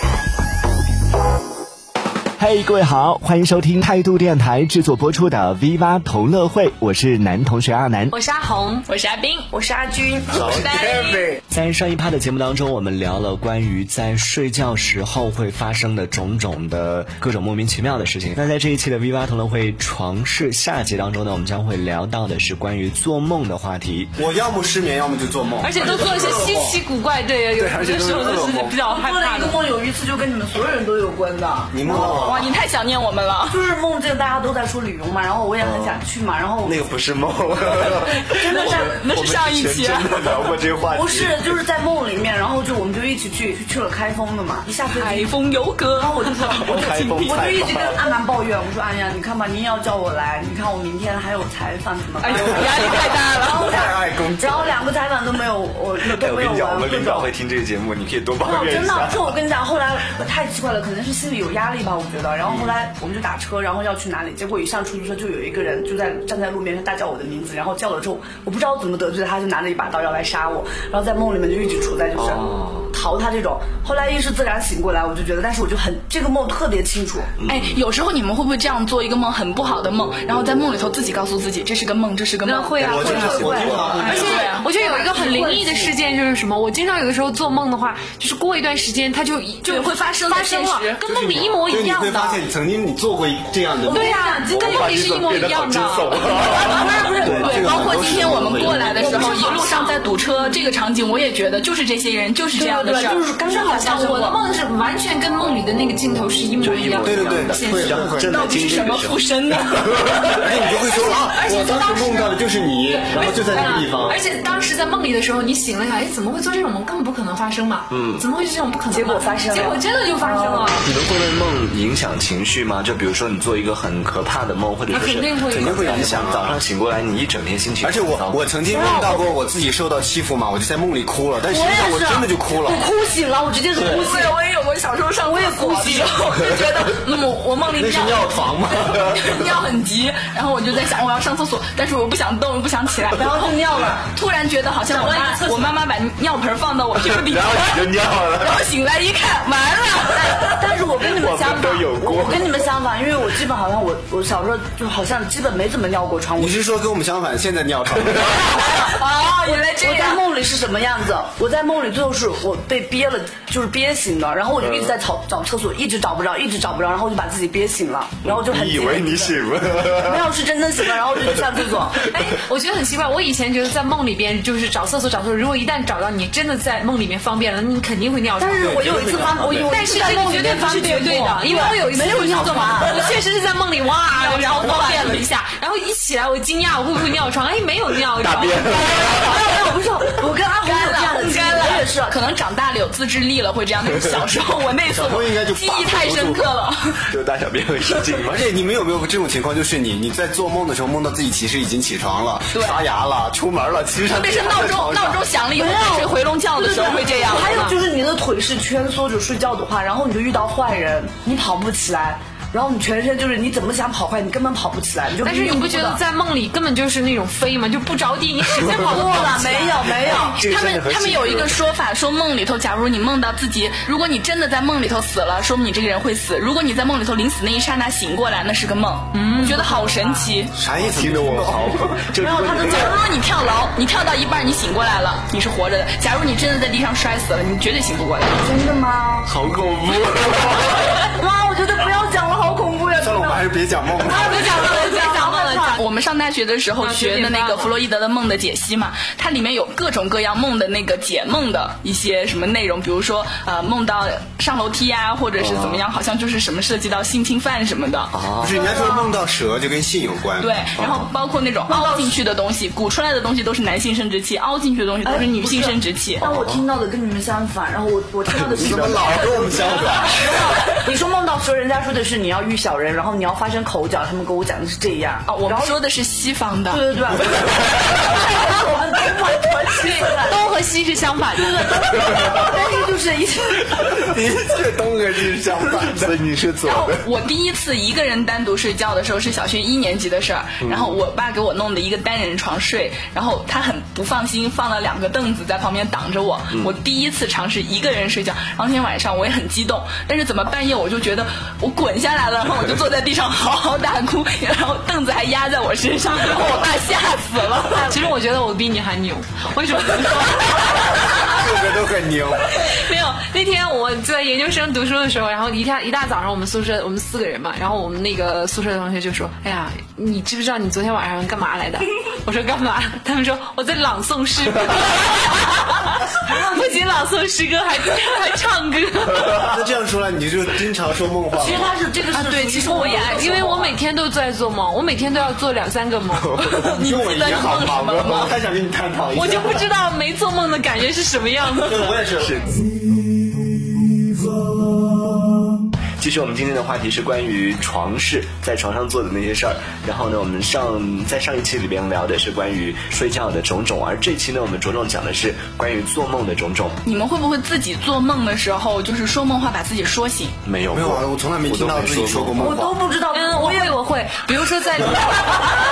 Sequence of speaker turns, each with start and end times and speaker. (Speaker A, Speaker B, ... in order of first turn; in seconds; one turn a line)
Speaker A: 2.4-8.1
Speaker B: 8.1-8.9
Speaker C: 8.9-9.5
Speaker D: 9.5-10.7
Speaker C: 10.4-11.4
Speaker A: 10.4-24.1
Speaker E: 24.2-26.8
Speaker B: 25.6-29.6
Speaker D: 25.9-26.7
Speaker E: 27.6-28.8
Speaker D: 28.7-32.5
Speaker E: 31.7-32.5
Speaker C: 31.9-33.6
Speaker A: 32.0-32.3
Speaker D: 33.5-36.8
Speaker A: 35.6-36.0
Speaker A: 36.6-41.5
Speaker D: 38.2-39.0
Speaker C: 38.3-40.3
Speaker D: 40.9-45.3
Speaker C: 45.0-47.4
Speaker D: 46.0-57.3
Speaker A: 46.6-48.0
Speaker C: 52.2-53.8
Speaker E: 53.8-54.7
Speaker A: 56.0-59.3
Speaker D: 58.4-77.4
Speaker A: 62.5-62.7
Speaker A: 72.2-73.0
Speaker A: 77.4-77.8
Speaker C: 77.5-83.4
Speaker B: 82.4-92.5
Speaker E: 82.8-84.4
Speaker D: 83.0-86.0
Speaker A: 83.3-83.9
Speaker C: 84.0-84.7
Speaker C: 89.7-91.0
Speaker E: 91.0-94.1
Speaker D: 93.8-95.0
Speaker B: 93.9-96.3
Speaker A: 94.5-97.5
Speaker D: 96.2-98.0
Speaker C: 96.5-103.2
Speaker E: 97.2-99.0
Speaker A: 98.4-98.8
Speaker D: 98.9-99.7
Speaker B: 99.0-100.0
Speaker D: 102.5-104.4
Speaker B: 103.4-108.2
Speaker A: 106.6-109.2
Speaker E: 107.0-108.4
Speaker C: 108.3-110.4
Speaker A: 109.9-110.4
Speaker E: 110.4-114.2
Speaker B: 110.7-112.3
Speaker B: 112.9-120.9
Speaker A: 117.9-118.2
Speaker D: 118.9-120.7
Speaker A: 120.7-128.4
Speaker B: 124.9-126.1
Speaker E: 125.5-126.6
Speaker E: 127.8-132.9
Speaker D: 128.7-129.3
Speaker D: 131.5-134.4
Speaker E: 133.8-134.1
Speaker C: 133.9-143.6
Speaker D: 135.3-136.1
Speaker E: 137.8-139.5
Speaker D: 143.1-144.1
Speaker C: 144.1-150.5
Speaker D: 144.9-145.8
Speaker A: 147.0-148.6
Speaker D: 150.1-156.6
Speaker A: 151.1-152.6
Speaker E: 156.4-158.6
Speaker D: 158.4-172.0
Speaker C: 158.7-160.2
Speaker A: 164.6-164.9
Speaker A: 168.2-170.3
Speaker B: 172.1-179.0
Speaker D: 178.4-183.1
Speaker A: 178.8-179.7
Speaker B: 179.6-189.0
Speaker C: 184.1-185.3
Speaker A: 188.2-189.0
Speaker D: 188.6-192.2
Speaker C: 190.6-197.1
Speaker E: 194.9-196.4
Speaker A: 197.1-198.4
Speaker E: 198.2-205.2
Speaker C: 202.5-202.8
Speaker C: 204.1-207.5
Speaker D: 205.6-216.0
Speaker B: 207.2-207.8
Speaker B: 215.2-220.0
Speaker D: 218.7-220.4
Speaker A: 219.9-221.6
Speaker C: 220.2-230.5
Speaker B: 229.1-229.7
Speaker E: 230.5-232.0
Speaker A: 230.8-232.9
Speaker D: 232.2-233.0
Speaker C: 232.6-238.5
Speaker D: 238.4-239.3
Speaker A: 239.2-240.8
Speaker D: 241.0-243.4
Speaker E: 243.0-244.5
Speaker B: 244.1-245.8
Speaker D: 244.3-244.8
Speaker C: 244.5-258.1
Speaker B: 246.8-247.7
Speaker A: 255.4-255.8
Speaker A: 258.1-258.6
Speaker E: 258.4-261.1
Speaker D: 258.5-259.2
Speaker C: 260.4-266.3
Speaker D: 261.7-262.2
Speaker D: 265.0-275.8
Speaker A: 266.2-266.6
Speaker A: 268.3-269.0
Speaker E: 268.6-270.2
Speaker C: 275.3-276.8
Speaker D: 276.7-280.4
Speaker B: 279.9-281.7
Speaker D: 281.4-284.1
Speaker A: 284.1-287.0
Speaker E: 284.5-285.2
Speaker C: 286.6-308.1
Speaker A: 290.6-291.0
Speaker B: 307.8-310.5
Speaker E: 311.1-312.5
Speaker B: 312.6-329.6
Speaker E: 329.4-331.8
Speaker D: 331.4-333.8
Speaker C: 332.1-333.6
Speaker B: 333.0-336.3
Speaker A: 336.2-336.6
Speaker C: 336.4-338.4
Speaker E: 336.8-339.7
Speaker B: 339.1-341.9
Speaker E: 341.6-342.4
Speaker A: 342.2-342.6
Speaker A: 346.0-356.8
Speaker C: 356.8-360.4
Speaker A: 360.5-362.7
Speaker E: 360.7-362.8
Speaker D: 362.4-363.8
Speaker B: 363.1-365.4